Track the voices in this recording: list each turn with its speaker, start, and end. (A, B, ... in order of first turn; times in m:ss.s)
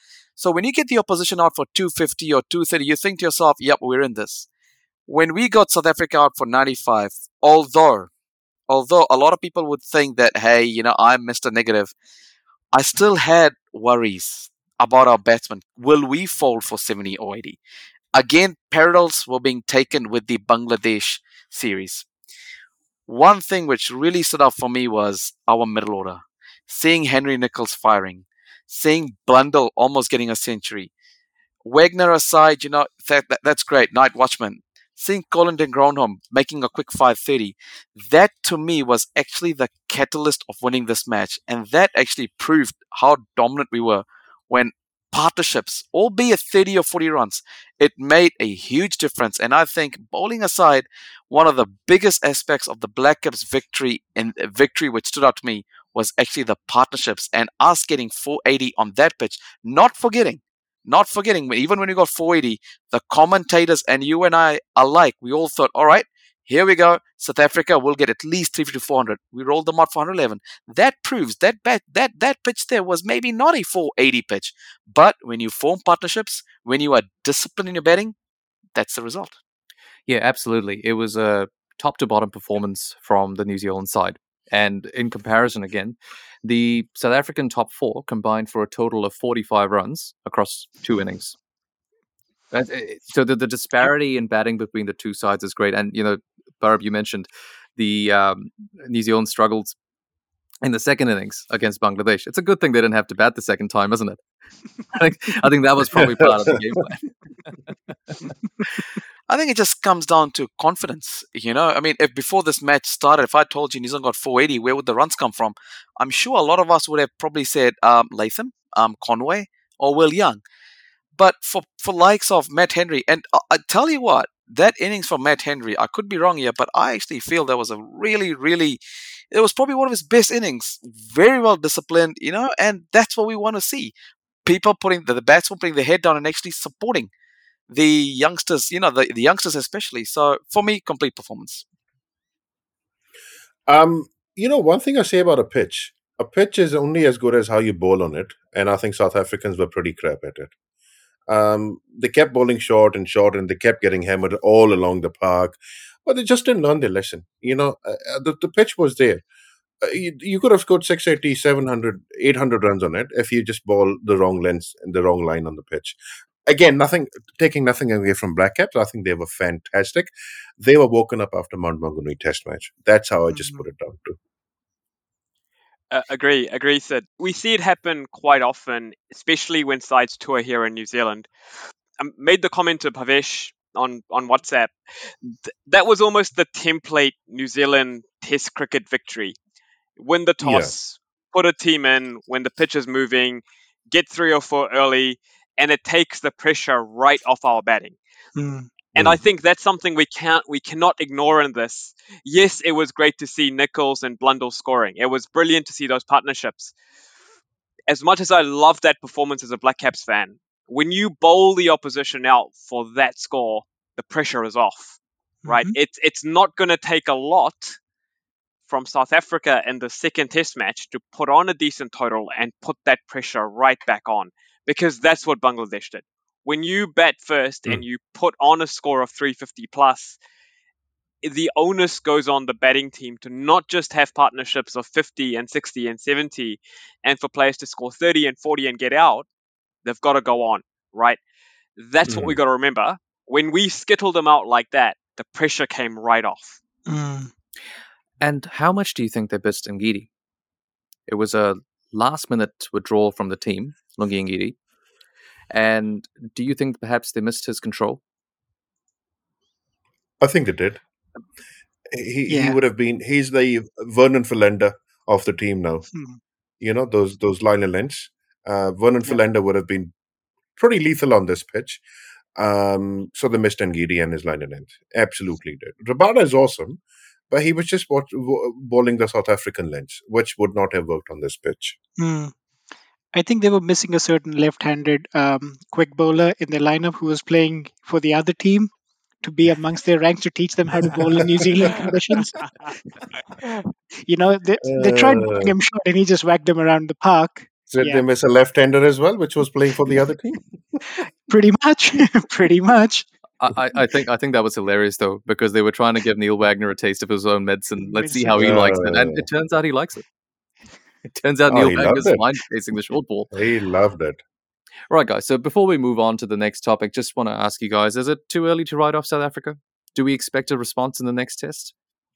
0:00.4-0:04.5 A
0:05.1-0:08.1 A
0:08.7-0:11.9 A
0:12.7-0:17.6 A
0:18.2-0:22.1 A
0:23.1-0:30.9 A
0:31.6-1:18.2 A
1:18.8-1:19.4 A
1:20.1-1:31.4 B
1:32.5-1:39.8 B
1:40.6-1:44.2 B
1:44.9-1:47.1 B
1:46.0-1:46.3 C
1:49.3-2:00.4 A
2:01.2-2:08.8 A
2:09.3-2:13.9 A
2:14.4-2:17.1 A
2:17.7-2:21.6 A
2:23.7-2:30.5 C
2:31.3-2:39.2 C
2:39.8-2:46.0 C
2:46.5-2:54.2 C
2:53.3-2:53.6 D
2:55.9-3:01.3 E
3:02.0-3:04.7 E
3:05.3-3:09.4 E
3:10.0-3:18.0 E
3:10.4-3:10.7 C
3:18.4-3:18.7 D
3:18.9-3:26.7 E
3:27.9-3:37.8 E
3:35.4-3:35.7 D
3:38.7-3:50.2 E
3:51.2-3:59.3 E
3:59.8-4:01.2 E
4:01.8-4:06.6 E
4:02.1-4:02.4 C
4:06.9-4:07.3 D
4:08.2-4:10.1 B
4:11.1-4:14.6 B
4:15.5-4:18.0 B
4:20.2-4:20.8 C
4:21.9-4:25.9 C
4:22.3-4:22.6 D
4:26.6-4:29.9 C
4:30.6-4:31.8 C
4:32.4-4:41.8 C
4:42.0-4:42.3 D
4:43.1-4:52.4 D
4:51.6-4:51.9 C
4:53.4-4:58.0 D
4:54.6-4:55.6 C
4:57.7-5:00.8 C
5:01.3-5:03.1 D
5:03.4-5:10.1 B
5:07.8-5:08.5 D
5:08.4-5:09.3 C
5:11.1-5:13.3 B
5:11.5-5:12.2 C
5:13.3-5:14.2 C
5:14.9-5:21.7 B